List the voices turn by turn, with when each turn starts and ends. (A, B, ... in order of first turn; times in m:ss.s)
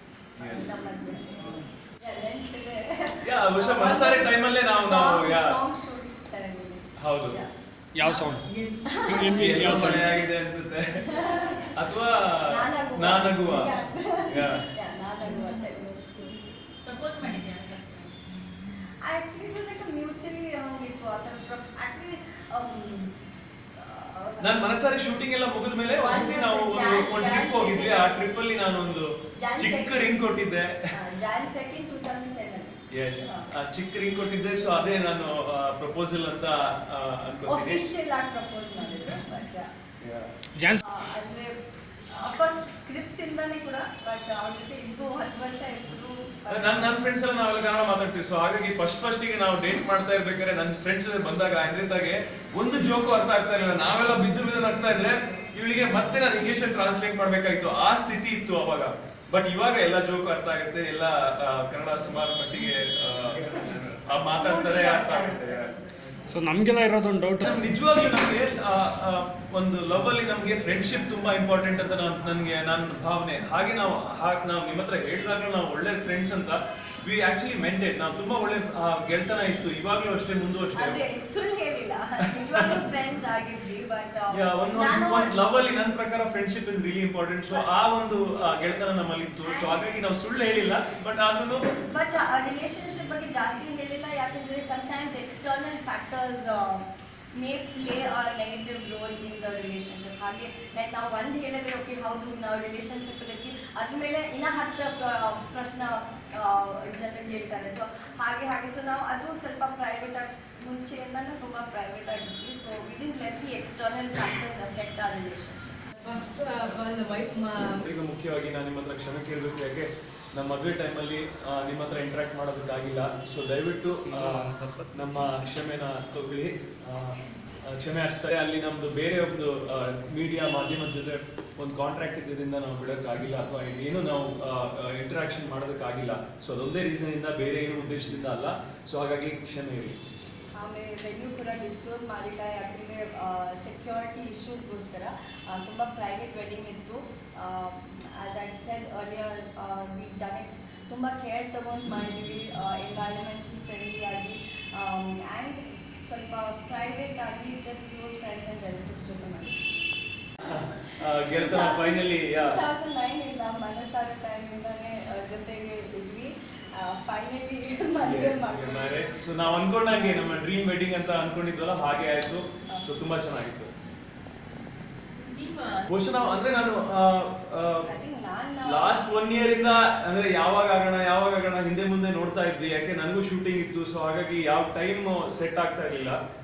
0:00.4-0:00.8 A
0:00.4-0:07.5 B
0:03.2-0:05.6 A
0:07.0-0:07.4 A
0:07.9-0:10.2 C
0:08.0-0:10.1 B
0:09.3-0:11.1 A
0:11.0-0:11.7 B
0:11.7-0:14.6 A
0:12.4-0:16.3 B
0:16.8-0:18.2 D
0:19.0-0:23.1 B
0:23.8-0:24.7 B
0:24.4-0:30.9 A
0:26.0-0:28.2 B
0:29.4-0:30.2 B
0:30.9-0:33.4 B
0:32.9-0:37.8 A
0:37.5-0:39.7 B
0:40.0-0:40.3 A
0:40.6-0:40.8 C
0:40.8-0:41.6 B
0:42.1-0:47.0 B
0:46.5-1:05.7 A
1:04.3-1:06.2 B
1:06.3-1:07.6 C
1:07.4-1:21.0 A
1:20.8-1:25.3 B
1:22.4-1:22.8 A
1:24.3-1:31.7 A
1:29.4-1:29.8 B
1:31.9-1:55.8 B
1:56.0-1:57.8 D
1:57.6-2:20.0 A
2:04.1-2:04.8 C
2:20.6-2:39.6 B
2:40.4-2:42.6 A
2:40.9-2:49.1 B
2:48.0-2:53.7 A
2:55.2-2:55.8 D
2:55.9-2:57.9 A
2:57.9-2:59.0 B
2:58.6-3:06.2 A